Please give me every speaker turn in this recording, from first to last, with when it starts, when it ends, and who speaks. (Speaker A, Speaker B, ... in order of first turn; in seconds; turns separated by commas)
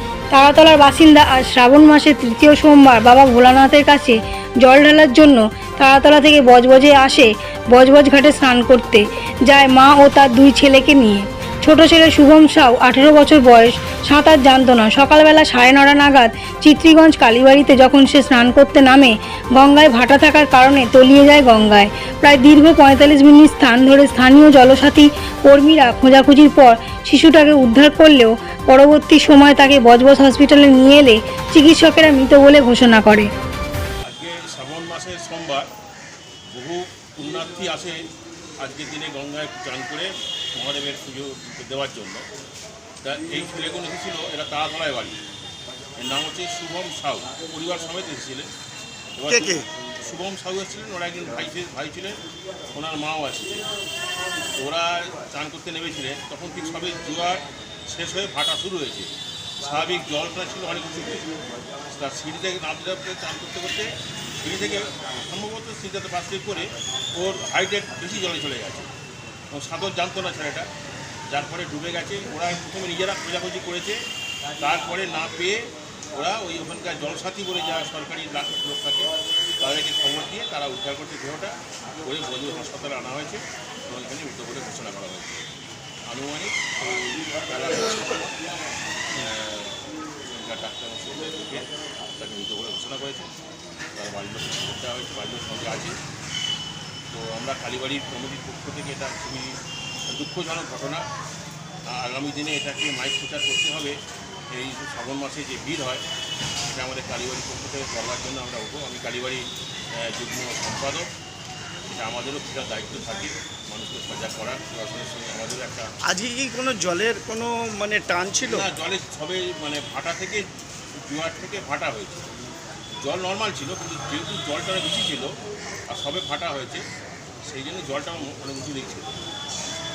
Speaker A: 0.3-33.3, Speaker B: 34.1-35.7, Speaker B: 36.5-38.0, Speaker B: 38.6-42.2, Speaker B: 43.0-45.2, Speaker B: 46.0-48.5, Speaker B: 49.2-52.2, Speaker C: 49.3-49.6, Speaker B: 52.7-53.7, Speaker B: 54.6-61.3, Speaker B: 61.9-63.9, Speaker B: 64.4-68.9, Speaker B: 69.5-70.7, Speaker B: 71.3-74.0, Speaker B: 74.6-85.5, Speaker B: 86.1-86.8, Speaker B: 87.5-88.3, Speaker B: 89.2-93.3, Speaker B: 94.0-96.0, Speaker B: 97.1-101.0, Speaker B: 101.9-104.0, Speaker B: 104.5-106.0, Speaker B: 106.7-109.5, Speaker B: 110.0-111.1, Speaker B: 111.9-115.9, Speaker C: 116.1-118.7, Speaker B: 118.5-120.4, Speaker B: 121.0-122.3, Speaker B: 123.0-125.3, Speaker B: 125.9-126.8, Speaker B: 127.5-129.1